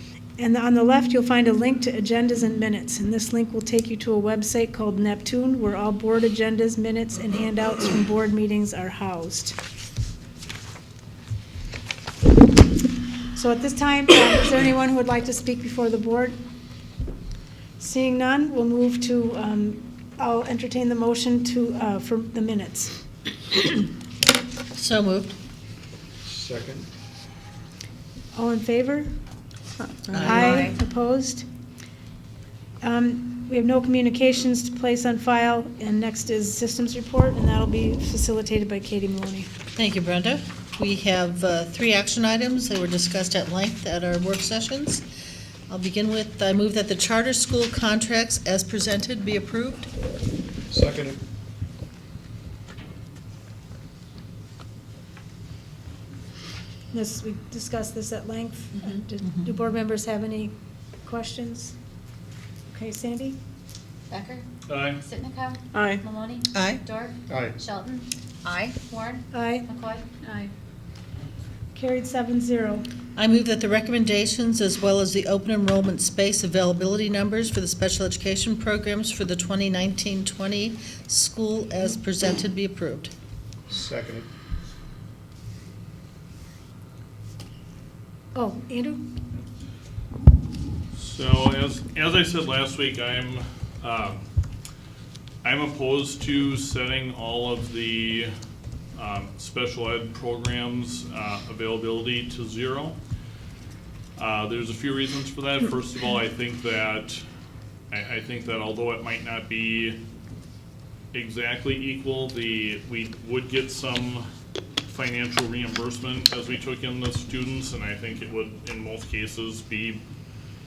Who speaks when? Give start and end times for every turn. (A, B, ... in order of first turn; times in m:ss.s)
0:00.4-0:09.6 A
0:13.4-0:16.4 A
0:17.8-0:22.9 A
0:24.7-0:25.3 B
0:26.2-0:26.9 C
0:28.3-0:29.1 A
0:30.1-0:30.7 B
0:30.2-0:31.5 A
0:32.8-0:39.5 A
0:39.7-0:45.0 B
0:45.7-0:49.9 B
0:50.7-0:51.2 C
0:56.9-1:00.5 A
1:01.0-1:01.8 A
1:02.7-1:03.4 A
1:04.1-1:04.5 D
1:04.7-1:05.0 E
1:05.0-1:10.2 D
1:06.5-1:06.8 B
1:07.3-1:07.6 C
1:09.3-1:09.7 A
1:11.8-1:12.9 A
1:13.2-1:23.1 B
1:23.7-1:24.3 C
1:28.3-1:29.0 A
1:31.0-1:34.2 E
1:35.4-1:38.3 E
1:39.0-1:43.0 E
1:44.2-1:47.2 E
1:47.9-1:50.0 E
1:51.1-1:54.3 E
1:54.9-2:00.0 E